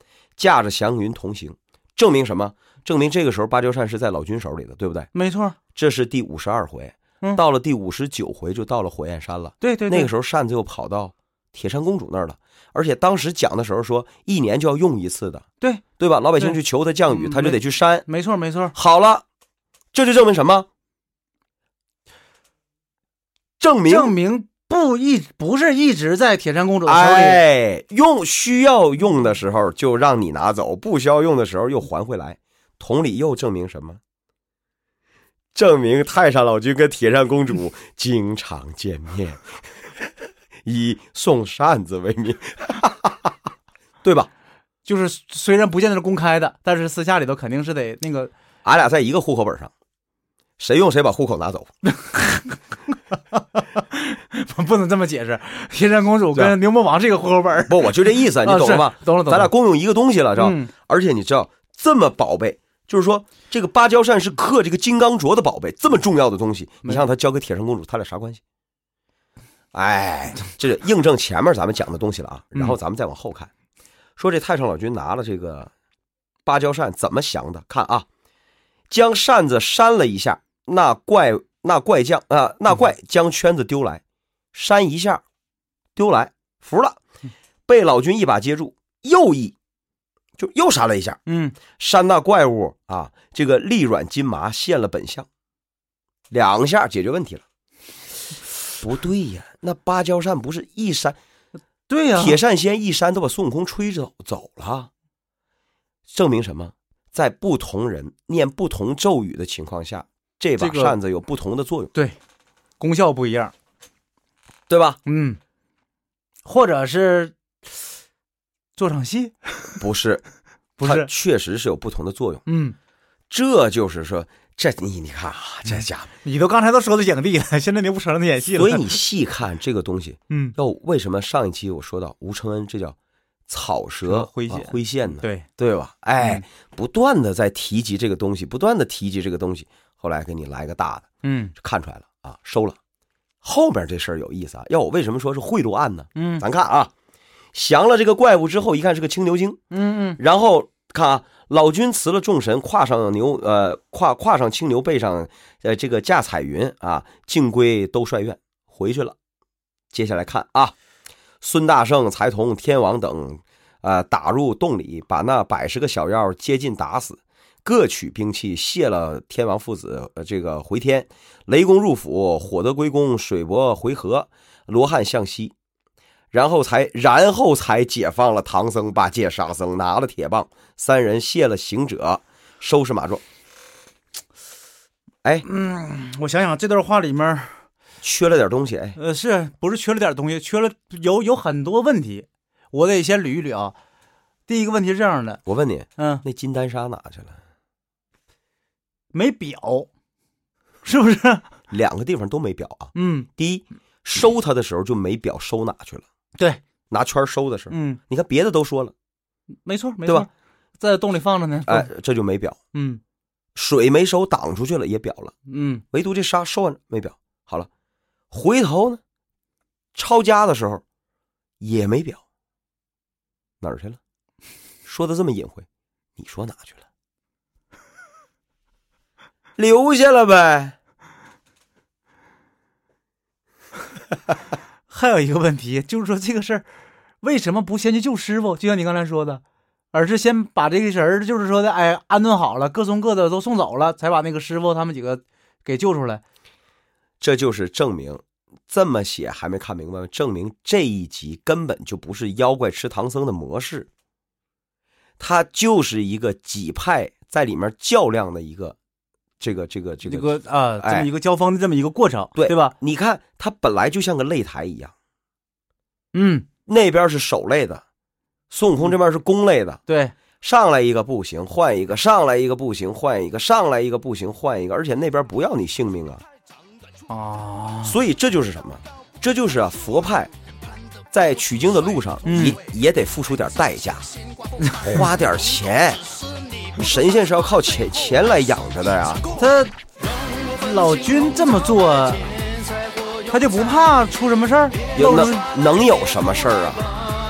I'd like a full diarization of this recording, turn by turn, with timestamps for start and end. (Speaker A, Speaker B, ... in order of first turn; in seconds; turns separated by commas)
Speaker A: 0.4-5.1, Speaker B: 5.1-5.5, Speaker A: 5.7-15.5, Speaker B: 9.6-10.1, Speaker A: 16.0-18.1, Speaker B: 17.1-18.7, Speaker A: 18.7-19.2, Speaker A: 19.9-20.7, Speaker A: 23.6-24.1, Speaker B: 23.9-27.4, Speaker A: 26.9-34.0, Speaker A: 35.5-39.4, Speaker A: 40.6-43.3, Speaker A: 44.0-44.3, Speaker B: 44.8-48.3, Speaker A: 48.6-49.7, Speaker A: 50.6-51.7, Speaker B: 51.9-59.5, Speaker A: 57.7-68.4, Speaker B: 60.4-60.7, Speaker A: 69.7-73.5, Speaker A: 74.2-75.7, Speaker A: 76.4-78.0, Speaker A: 78.9-84.0, Speaker A: 84.5-85.2, Speaker A: 86.0-87.0, Speaker A: 87.7-89.5, Speaker A: 90.4-95.3, Speaker B: 91.2-91.5, Speaker A: 96.3-97.4, Speaker A: 98.8-101.2, Speaker B: 101.9-102.4, Speaker A: 102.1-104.9, Speaker A: 106.1-111.9, Speaker B: 110.6-111.0, Speaker B: 112.8-113.5, Speaker A: 114.7-115.0, Speaker B: 115.0-115.4, Speaker B: 116.4-117.3, Speaker B: 118.8-119.8, Speaker A: 119.8-120.2, Speaker B: 120.8-121.1, Speaker A: 120.8-122.4, Speaker B: 122.5-122.8, Speaker A: 123.3-126.1, Speaker B: 125.7-129.0, Speaker A: 128.5-132.9, Speaker B: 130.3-130.6, Speaker A: 133.5-142.8, Speaker B: 134.0-135.5, Speaker B: 136.2-136.4, Speaker B: 141.2-141.5, Speaker A: 143.4-146.9, Speaker B: 146.1-146.4, Speaker A: 147.5-149.6, Speaker B: 149.7-150.2, Speaker A: 150.2-159.2, Speaker A: 159.9-160.7, Speaker A: 161.4-175.5, Speaker A: 176.3-183.2, Speaker B: 185.4-187.6, Speaker A: 188.0-189.0, Speaker B: 188.9-193.8, Speaker B: 194.5-195.4, Speaker A: 195.4-197.4, Speaker B: 196.0-196.2, Speaker B: 199.1-199.9, Speaker B: 200.8-201.4, Speaker A: 201.7-206.1, Speaker B: 202.9-203.3, Speaker A: 206.9-208.9, Speaker B: 207.7-208.0, Speaker B: 209.6-211.9, Speaker A: 211.7-212.6, Speaker B: 212.7-213.0, Speaker A: 213.5-215.3, Speaker B: 215.5-215.8, Speaker A: 215.9-217.7, Speaker A: 218.3-219.0, Speaker A: 219.9-220.8, Speaker A: 221.6-222.2, Speaker A: 223.6-224.0, Speaker A: 224.8-225.7, Speaker A: 226.2-226.8, Speaker A: 229.6-230.8, Speaker B: 234.9-236.7, Speaker B: 237.2-239.4, Speaker B: 239.9-246.2, Speaker A: 247.2-253.9, Speaker A: 255.2-258.8, Speaker A: 259.4-261.1, Speaker B: 260.0-262.7, Speaker A: 262.4-264.9, Speaker B: 266.1-266.5, Speaker A: 266.7-267.8, Speaker A: 268.5-269.8, Speaker B: 269.9-270.1, Speaker A: 270.4-276.2, Speaker B: 277.1-278.0, Speaker A: 277.8-280.3, Speaker A: 281.1-284.1, Speaker B: 282.2-282.6, Speaker B: 284.6-285.0, Speaker A: 284.8-286.0, Speaker A: 286.7-289.2, Speaker B: 289.3-292.5, Speaker B: 293.2-295.5, Speaker A: 294.9-297.0